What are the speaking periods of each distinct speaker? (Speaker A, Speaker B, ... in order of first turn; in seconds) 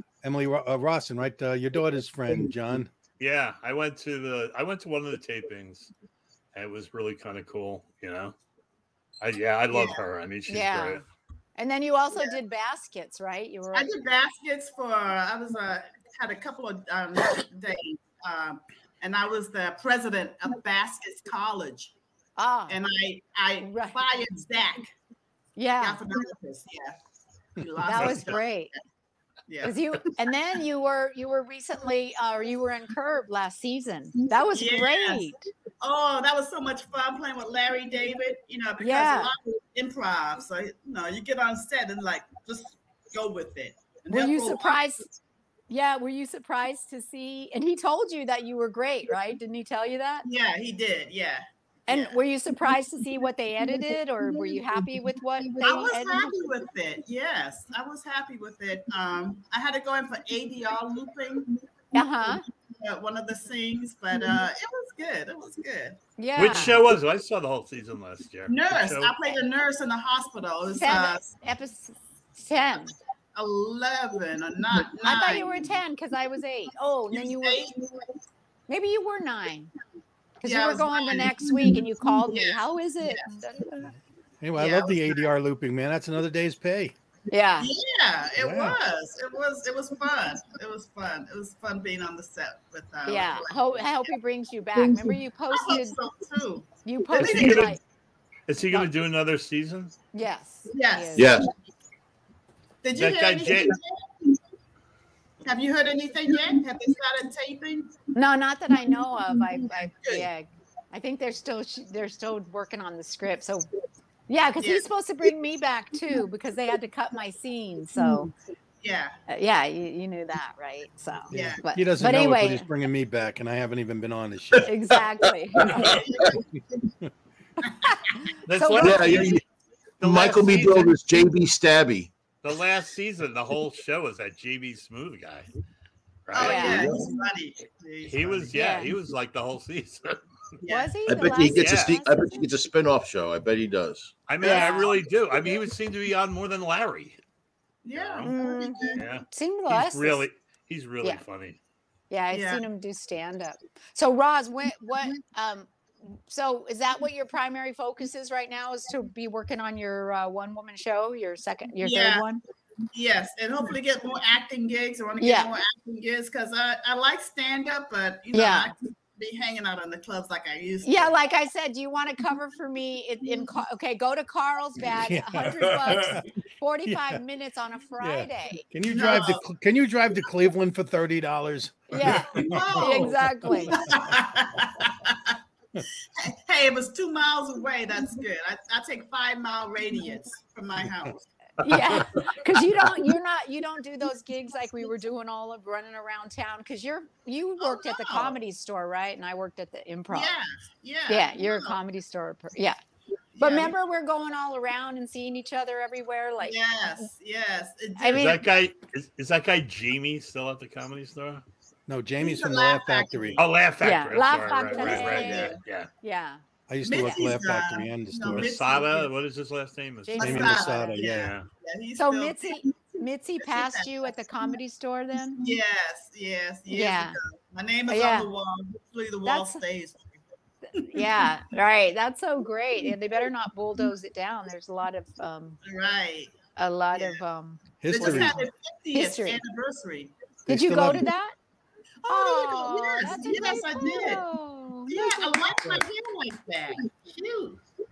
Speaker A: 0.2-2.9, 84.4-86.9, 88.4-88.8, 121.3-124.9, 174.9-176.2, 176.8-177.2, 178.0-184.2, 211.9-213.4, 216.7-218.5, 220.2-221.3, 237.8-238.5, 240.5-241.1
Speaker B: 3.2-5.9, 6.5-8.3, 9.2-11.0, 66.3-69.2, 97.1-97.8, 98.5-99.9, 102.9-103.8, 128.4-129.4, 130.0-130.9, 132.4-135.5, 136.3-137.0, 138.0-140.2, 141.5-142.0, 144.3-147.2, 147.9-148.3, 148.9-151.6, 208.1-211.4, 213.4-215.9, 218.3-220.4, 221.0-221.5
Speaker C: 9.7-10.0, 13.7-21.9, 22.7-24.9, 25.8-26.9, 27.6-28.4, 29.5-29.8, 34.5-44.8, 50.2-52.2, 55.6-61.5, 62.3-66.0, 68.5-71.3, 73.3-75.7, 77.1-78.1, 80.4-83.2, 84.5-85.2, 87.6-94.0, 95.5-97.7, 100.7-101.4, 102.8-104.1, 105.4-108.0, 109.8-110.3, 114.6-114.9, 118.8-119.1, 121.3-121.6, 125.8-126.6, 127.8-128.1, 136.3-138.6, 140.6-140.9, 144.4-145.0, 147.8-149.0, 152.3-152.6, 161.8-162.2, 162.9-171.1, 178.9-179.4, 182.4-185.4, 186.2-191.3, 197.6-198.4, 200.1-201.8, 203.3-203.7, 206.4-208.4, 212.2-213.4, 215.0-215.6, 216.8-219.1, 220.2-222.8, 223.4-224.1, 225.4-230.1, 230.8-231.3, 235.6-236.3, 236.9-237.2, 237.9-240.1, 242.0-244.2, 244.9-247.6
Speaker D: 10.5-11.0, 11.6-13.9, 22.4-22.8, 23.6-24.0, 25.6-26.0, 27.8-28.7, 29.6-35.4, 38.8-39.3, 44.1-45.1, 45.7-50.3, 51.9-56.4, 61.9-62.4, 66.2-66.8, 70.8-72.9, 75.0-77.6, 78.7-79.7, 80.4-83.9, 87.3-87.7, 93.0-96.0, 96.8-97.8, 100.1-101.3, 108.1-113.7, 114.3-118.3, 119.3-122.7, 124.6-125.9, 128.1-129.3, 136.3-136.8, 138.5-138.9, 140.7-142.4, 144.4-144.9, 148.2-150.2, 152.1-162.4, 165.2-165.5, 168.3-168.7, 170.8-178.7, 181.9-183.8, 191.6-200.3, 201.1-202.8, 203.4-207.1, 208.0-208.4, 213.8-216.4, 220.0-220.9, 222.0-225.6, 226.7-227.2, 227.9-228.3, 229.2-229.6, 230.7-235.6, 236.6-238.3, 238.9-239.4, 240.5-241.3, 242.1-245.4
Speaker E: 101.1-101.5, 125.6-125.9, 128.8-129.4, 130.0-132.1, 136.6-137.0, 141.1-144.2, 214.8-215.2